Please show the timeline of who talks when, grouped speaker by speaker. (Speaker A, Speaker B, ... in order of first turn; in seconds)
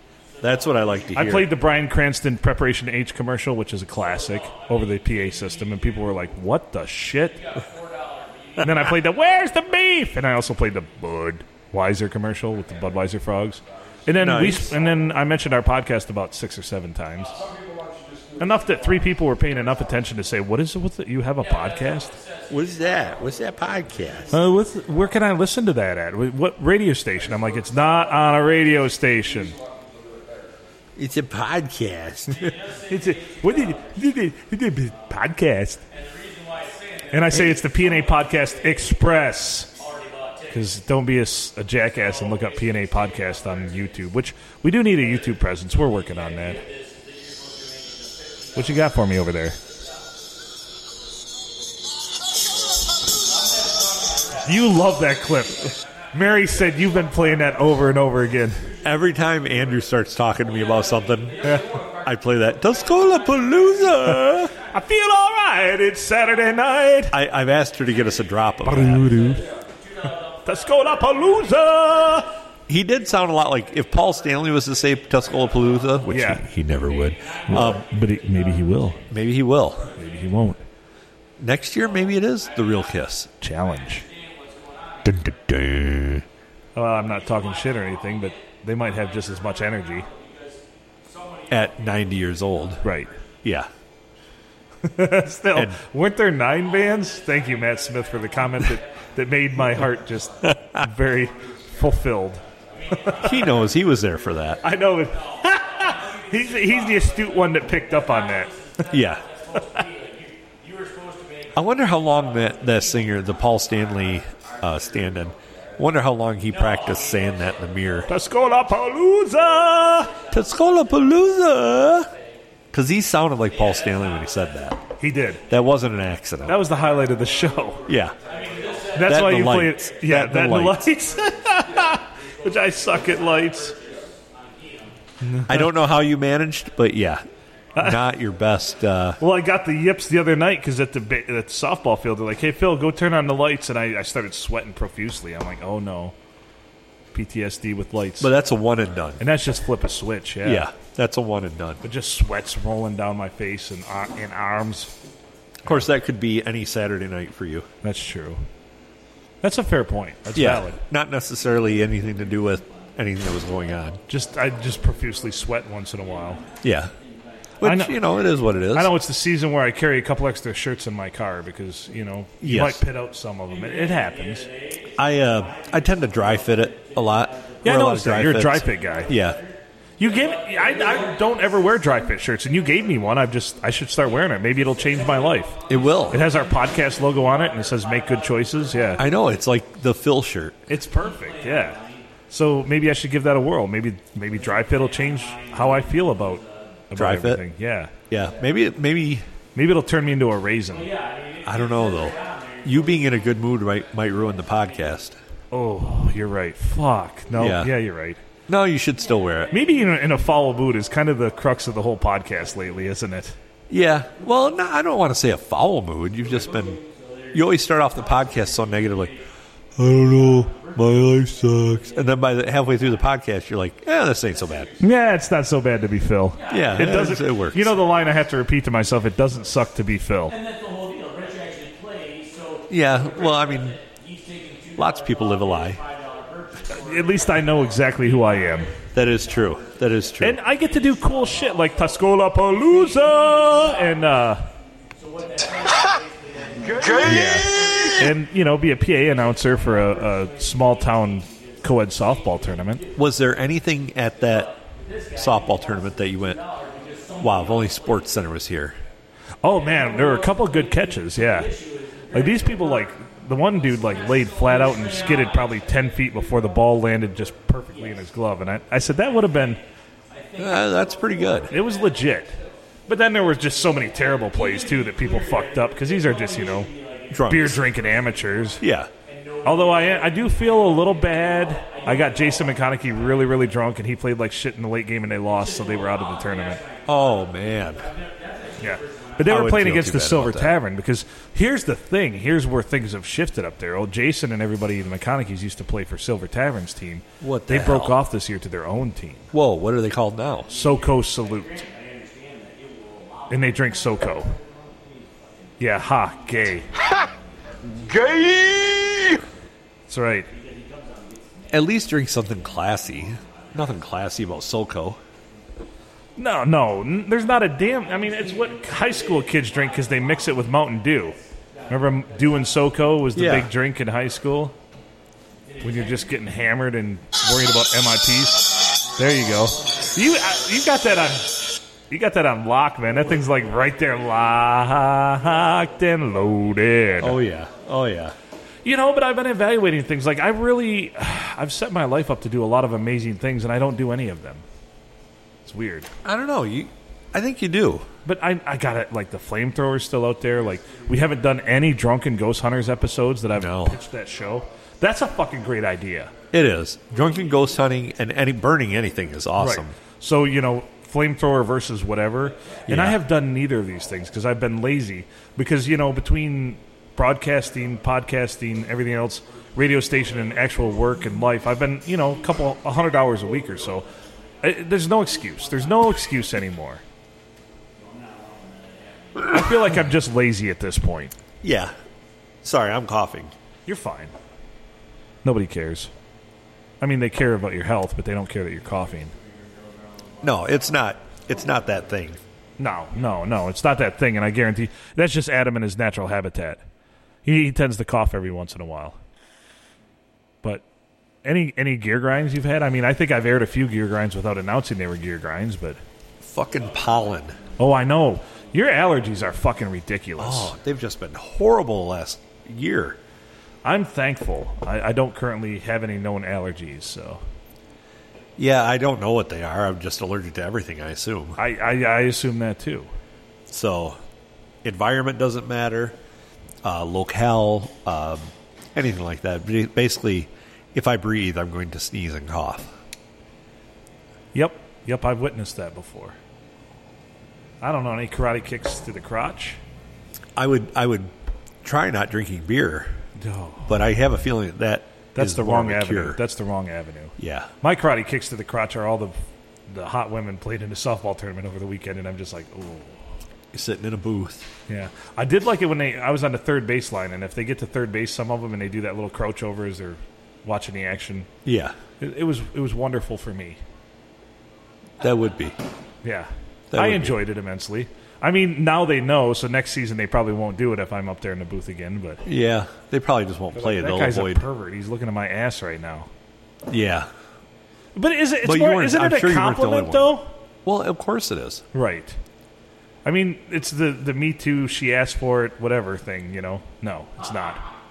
Speaker A: 0.4-1.5, 14.2-14.7, 22.5-24.3, 30.9-32.5, 58.8-64.5, 67.1-69.2, 72.7-77.8, 79.1-79.9, 81.4-83.3, 85.0-86.2, 91.5-92.8, 93.4-93.7, 100.4-100.8, 103.2-104.6, 108.9-109.2, 111.5-118.1, 120.3-122.1, 122.7-124.8, 125.5-126.6, 127.8-128.2, 129.0-130.8, 135.5-137.2, 137.8-139.2, 148.2-149.2, 150.4-151.8, 155.6-157.7, 160.3-164.0, 166.6-166.9, 167.6-168.9, 172.4-172.8, 175.0-179.4, 185.7-186.2, 189.0-190.6, 196.9-197.4, 198.1-199.2, 201.4-205.2, 207.3-207.7, 208.5-209.5, 213.7-216.8, 217.3-219.1, 219.8-224.7, 226.5-227.8, 232.7-233.8, 234.8-235.8, 238.9-240.4, 252.9-254.5, 255.1-256.4, 257.2-258.8, 270.4-271.5, 277.1-277.6, 278.6-278.9, 286.9-287.9, 289.2-290.5, 297.2-298.0, 299.3-300.5, 311.5-315.0, 323.1-323.5, 337.0-338.1, 346.0-347.9, 353.4-353.8, 356.3-359.7, 362.7-363.0, 381.4-381.7, 382.4-383.3, 390.2-392.2, 406.2-407.4, 410.2-413.0, 418.4-421.4, 423.5-424.0, 424.6-426.0, 426.6-432.7, 440.4-443.0, 443.7-446.2, 447.2-447.5, 453.5-454.5, 461.4-461.8, 465.0-465.6, 466.7-467.2, 472.2-474.4, 476.7-477.1, 478.4-480.1, 480.6-481.6
Speaker B: 1.1-7.5, 8.6-17.4, 18.4-22.1, 24.3-29.6, 32.9-35.8, 37.1-39.7, 40.5-46.6, 48.5-49.6, 54.4-58.6, 64.0-67.1, 68.6-69.5, 70.4-72.3, 76.1-76.4, 77.5-79.0, 79.9-80.6, 83.4-84.0, 86.8-90.1, 92.8-93.1, 94.8-103.3, 104.6-108.5, 118.1-120.1, 125.0-125.4, 126.5-127.9, 128.9-133.7, 135.2-135.7, 139.2-146.1, 147.1-148.3, 149.2-150.7, 151.8-154.9, 157.8-158.4, 159.4-160.8, 164.1-166.4, 167.6-168.0, 168.7-174.5, 177.6-179.1, 180.0-185.6, 186.1-189.0, 190.7-191.8, 192.3-197.9, 199.5-200.9, 205.5-208.2, 209.5-213.3, 224.8-230.3, 236.7-238.7, 240.2-244.5, 247.0-252.8, 259.4-261.5, 262.1-269.6, 271.5-276.7, 277.3-278.6, 279.4-286.6, 288.6-299.3, 300.5-301.6, 303.3-304.3, 305.6-306.7, 309.9-310.3, 316.2-321.1, 321.7-324.5, 325.6-337.2, 338.6-344.4, 345.4-345.9, 348.0-356.1, 359.4-373.9, 374.4-376.8, 379.2-381.1, 383.6-384.1, 385.2-385.9, 386.8-389.1, 392.6-396.6, 397.2-399.0, 401.2-405.8, 407.6-410.5, 413.6-417.2, 421.4-422.9, 434.3-436.2, 437.6-439.6, 443.2-443.8, 445.1-449.2, 449.7-453.0, 454.7-461.3, 462.0-463.6, 466.0-472.2, 473.5-476.1, 477.9-480.3, 481.7-482.1, 483.0-487.6
Speaker C: 7.7-8.9, 21.9-22.9, 32.4-34.0, 35.9-37.7, 39.7-40.5, 46.5-48.5, 84.1-84.9, 90.0-92.4, 102.8-103.8, 105.4-112.0, 116.7-118.1, 128.2-129.6, 132.7-134.9, 166.4-167.3, 173.7-181.4, 185.3-187.3, 188.3-189.1, 190.9-192.1, 194.5-196.8, 200.7-204.6, 216.3-219.2, 219.8-222.7, 226.3-227.2, 230.3-244.1, 244.9-248.2, 249.1-253.0, 253.9-258.1, 259.6-262.9, 263.6-265.8, 270.1-272.2, 274.2-278.1, 279.0-283.4, 285.3-289.5, 300.5-303.7, 304.4-308.5, 310.3-313.7, 318.1-321.2, 325.5-326.0, 377.8-379.4
Speaker D: 246.6-248.0, 307.9-309.2